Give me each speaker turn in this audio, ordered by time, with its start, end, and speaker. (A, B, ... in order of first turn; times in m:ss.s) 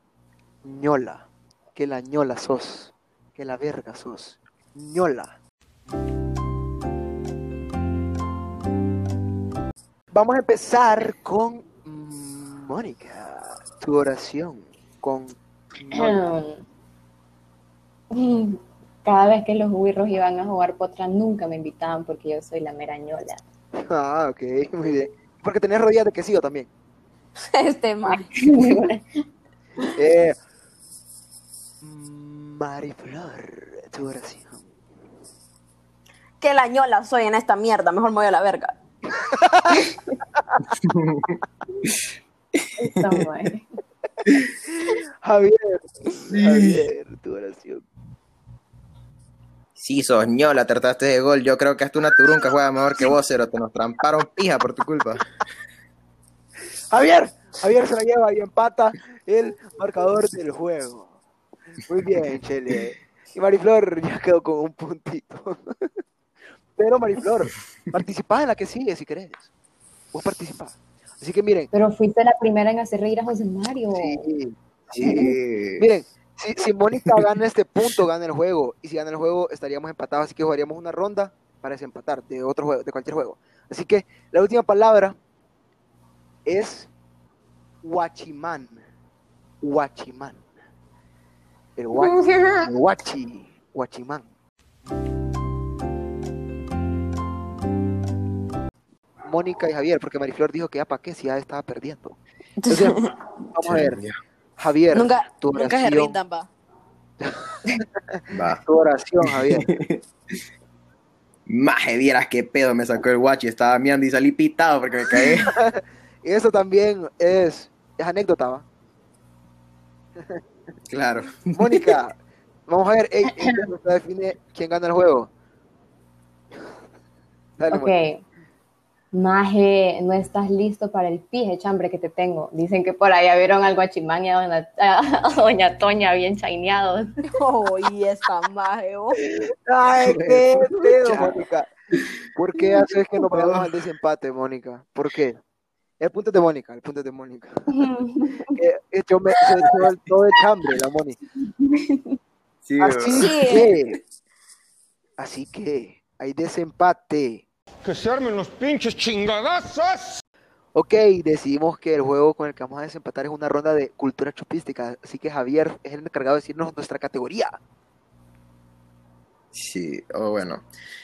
0:00.6-0:05.3 A
0:10.1-0:16.2 A
0:15.9-0:16.6 B
0:18.1-0:23.4 B
0:23.8-0:26.7 A
0:27.5-0:28.3 C
0:28.0-0:29.1 B
0:29.9-0:30.4 A
0:31.8-0:34.6 A
0:36.4-0:38.7 C
0:39.2-0:40.4 A
0:40.8-0:41.9 D
0:42.8-0:43.6 B
0:44.8-0:47.8 A
0:46.3-0:46.8 D
0:49.8-0:55.2 D
0:56.9-1:01.1 A
1:01.8-1:05.9 A
1:06.8-1:09.5 A
1:10.1-1:11.7 A
1:11.7-1:14.2 B
1:13.9-1:25.2 A
1:14.9-1:15.9 D
1:26.4-1:26.9 A
1:27.8-1:28.8 A
1:29.6-1:30.4 A
1:31.8-1:34.2 A
1:32.2-1:32.6 B
1:39.2-1:42.2 A
1:42.6-1:43.2 C
1:42.7-1:43.0 A
1:43.5-1:44.0 A
1:43.6-1:44.2 D
1:44.6-1:46.2 A
1:44.9-1:46.5 C
1:47.2-1:49.6 A
1:48.3-1:48.6 D
1:49.2-1:50.0 D
1:51.5-1:55.5 D
1:55.4-1:58.6 A
2:00.9-2:02.0 D
2:01.5-2:05.3 A
2:07.6-2:07.9 A
2:07.7-2:08.2 B
2:09.1-2:17.2 B
2:17.3-2:19.2 C
2:19.3-2:21.7 A
2:20.0-2:21.3 D
2:22.3-2:25.4 A
2:23.3-2:23.7 D
2:26.0-2:27.8 A
2:27.7-2:28.5 B
2:28.4-2:31.2 A
2:31.4-2:32.2 B
2:32.6-2:33.5 D
2:32.8-2:34.0 A
2:33.2-2:33.7 C
2:35.2-2:37.4 A
2:37.8-2:40.2 E
2:40.7-2:47.6 A
2:49.5-2:50.6 D